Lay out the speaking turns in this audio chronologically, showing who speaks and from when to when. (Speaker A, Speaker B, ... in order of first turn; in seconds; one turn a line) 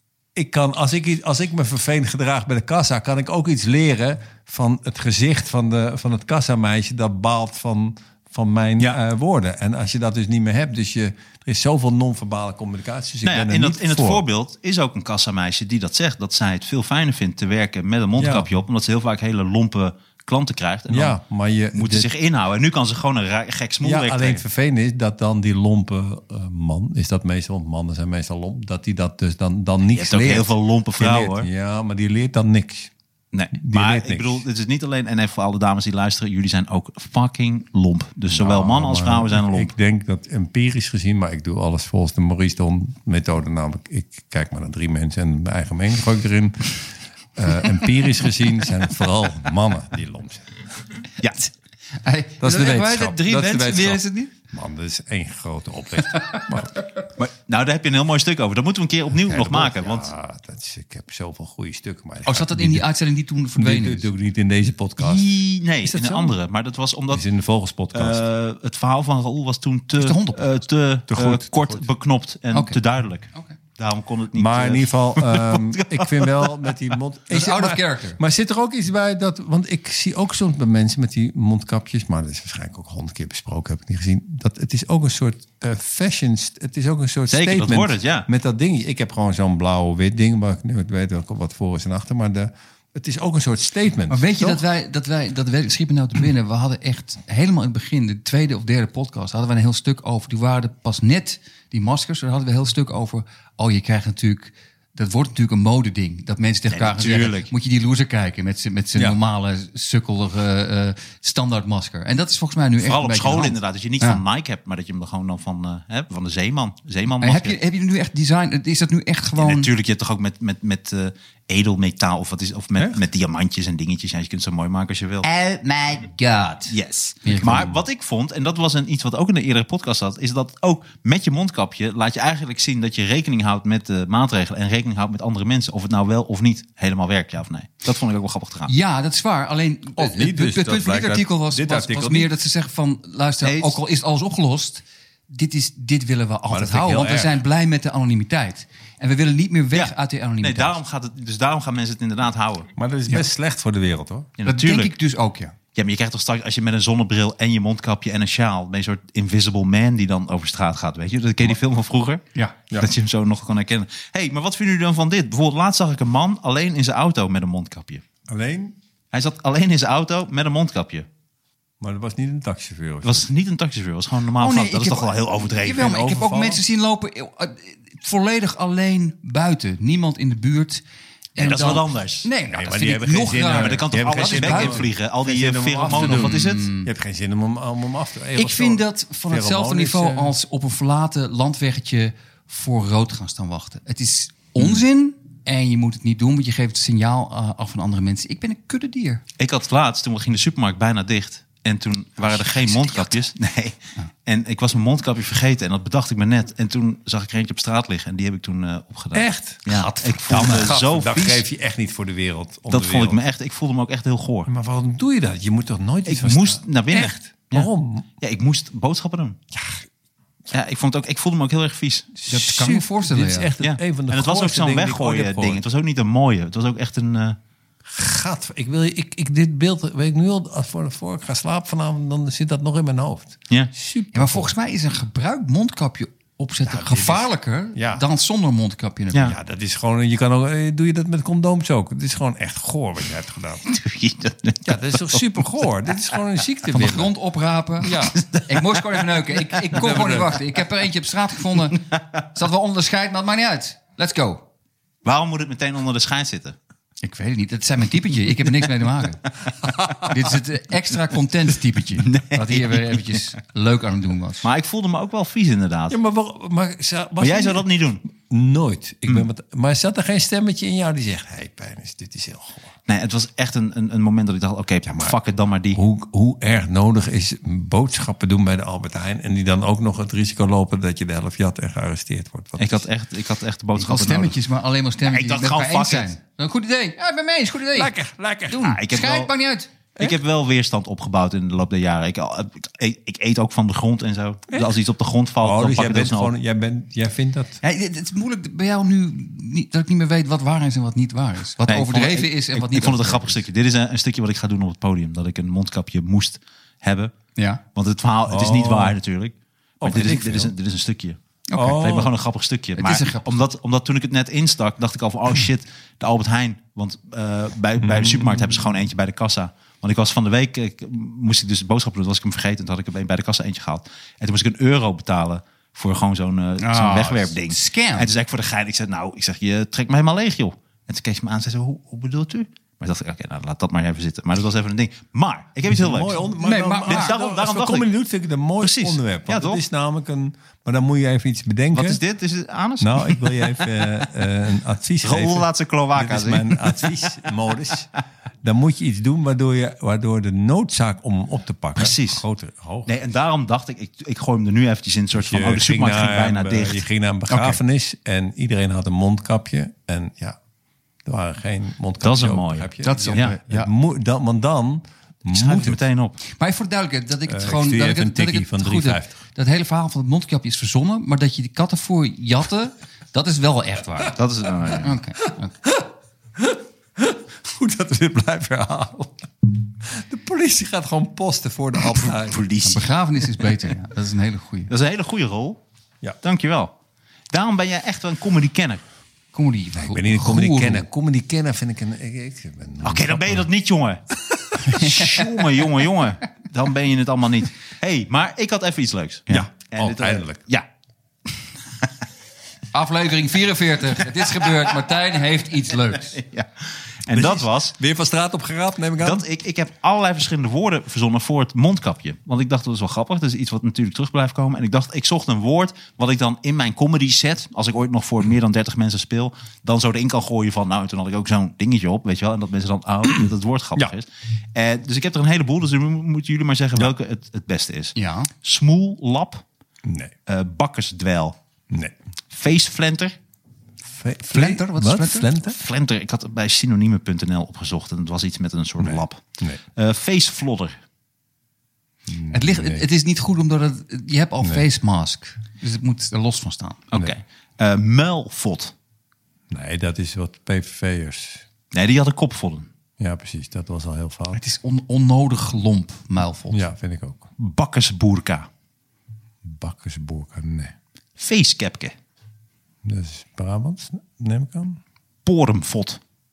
Speaker A: 0.3-14.2
Speaker B: 13.2-21.2
Speaker A: 18.2-18.5
Speaker A: 20.9-22.1
Speaker B: 21.7-24.4
Speaker A: 23.8-32.9
Speaker B: 29.9-31.5
Speaker B: 33.3-39.7
Speaker A: 33.6-34.4
Speaker A: 38.3-46.8
Speaker A: 47.4-50.6
Speaker C: 52.0-54.3
Speaker A: 52.4-56.8
Speaker B: 57.2-60.1
Speaker A: 59.3-62.9
Speaker C: 62.2-64.1
Speaker A: 63.6-65.3
Speaker B: 65.0-67.2
Speaker A: 65.8-66.4
Speaker A: 67.1-68.2
Speaker B: 67.9-76.8
Speaker C: 70.0-70.5
Speaker A: 71.1-71.9
Speaker C: 72.5-72.8
Speaker A: 74.3-94.6
Speaker C: 77.3-78.2
Speaker B: 87.3-88.3
Speaker C: 94.1-114.2
Speaker B: 106.7-107.5
Speaker B: 112.8-117.6
Speaker C: 117.2-119.7
Speaker B: 119.4-125.3
Speaker C: 125.2-127.7
Speaker B: 126.7-138.7
Speaker C: 138.7-150.8
Speaker A: 140.0-142.3
Speaker B: 143.4-143.8
Speaker A: 146.5-147.3
Speaker B: 149.7-152.7
Speaker A: 152.8-154.3
Speaker B: 154.4-154.9
Speaker C: 154.4-155.6
Speaker B: 155.8-168.0
Speaker A: 168.3-168.8
Speaker B: 169.1-171.1
Speaker A: 171.8-173.3
Speaker B: 173.0-176.1
Speaker C: 174.4-180.8
Speaker A: 175.8-176.6
Speaker C: 181.3-184.9
Speaker B: 181.4-182.3
Speaker A: 182.5-190.3
Speaker B: 183.5-186.7
Speaker C: 185.8-186.9
Speaker C: 188.3-199.2
Speaker B: 199.4-211.4
Speaker C: 202.2-203.2
Speaker A: 209.1-213.2
Speaker C: 209.7-210.7
Speaker B: 212.7-214.5
Speaker A: 214.5-218.1
Speaker B: 216.1-219.4
Speaker A: 219.5-219.9
Speaker B: 220.5-222.1
Speaker A: 222.2-225.6
Speaker C: 222.3-223.5
Speaker B: 223.6-227.4
Speaker A: 227.8-234.5
Speaker C: 234.1-239.3
Speaker A: 236.7-238.0
Speaker A: 239.2-243.7
Speaker B: 243.7-245.5
Speaker A: 244.7-247.1
Speaker C: 246.7-254.4
Speaker A: 247.8-248.2
Speaker B: 248.2-248.9
Speaker A: 249.7-250.4
Speaker B: 255.0-256.6
Speaker C: 257.0-259.2
Speaker A: 259.6-259.9
Speaker C: 260.0-264.5
Speaker B: 262.0-263.2
Speaker B: 264.4-266.0
Speaker A: 265.9-272.7
Speaker B: 267.2-268.0
Speaker B: 272.9-275.8
Speaker A: 274.9-275.2
Speaker A: 275.7-282.9
Speaker B: 282.6-284.4
Speaker C: 283.8-287.9
Speaker B: 285.0-286.1
Speaker A: 287.7-288.7
Speaker C: 288.5-289.7
Speaker B: 288.6-289.3
Speaker B: 290.0-296.3
Speaker A: 295.4-297.6
Speaker C: 297.6-303.4
Speaker B: 301.7-307.1
Speaker C: 307.4-307.6
Speaker B: 307.8-311.2
Speaker A: 308.3-309.0
Speaker A: 309.8-310.5
Speaker C: 311.5-311.8
Speaker A: 311.6-312.1
Speaker B: 311.7-336.2
Speaker C: 312.8-313.4
Speaker A: 317.8-318.6
Speaker C: 326.6-328.1
Speaker A: 335.7-342.0
Speaker C: 336.4-337.1
Speaker B: 336.8-337.9
Speaker B: 338.6-339.6
Speaker B: 341.7-344.0
Speaker A: 342.8-347.9
Speaker B: 345.0-347.1
Speaker A: 348.4-353.0
Speaker B: 351.8-352.2
Speaker B: 352.9-356.8
Speaker A: 355.1-360.4
Speaker A: 361.1-365.8
Speaker B: 362.0-363.3
Speaker C: 362.8-363.7
Speaker B: 365.3-366.2
Speaker C: 366.3-374.2
Speaker A: 367.3-369.1
Speaker B: 374.1-374.9
Speaker C: 374.8-375.5
Speaker A: 376.4-379.3
Speaker A: 379.8-382.4
Speaker B: 381.9-383.4
Speaker C: 382.6-384.7
Speaker B: 384.7-385.6
Speaker B: 386.2-386.7
Speaker B: 387.3-388.8
Speaker C: 389.3-390.8
Speaker A: 389.7-393.5
Speaker B: 392.8-394.0
Speaker B: 394.6-400.7
Speaker C: 394.8-395.1
Speaker A: 399.3-400.4
Speaker C: 402.7-406.2
Speaker B: 406.1-407.8
Speaker A: 407.1-409.2
Speaker B: 409.0-429.4
Speaker C: 428.0-428.3
Speaker A: 429.8-430.1
Speaker B: 430.3-431.4
Speaker B: 432.3-433.1
Speaker A: 433.8-435.6
Speaker C: 434.3-435.3
Speaker B: 435.4-439.2
Speaker A: 438.8-439.6
Speaker B: 439.8-440.8
Speaker A: 442.1-442.9
Speaker C: 442.3-446.8
Speaker B: 446.9-448.7
Speaker A: 449.5-451.4
Speaker B: 451.7-452.7
Speaker A: 453.0-454.4
Speaker C: 454.3-456.6
Speaker A: 456.5-457.3
Speaker B: 457.4-458.5
Speaker A: 459.4-460.7
Speaker B: 461.2-461.9
Speaker A: 462.8-464.8
Speaker B: 465.2-466.0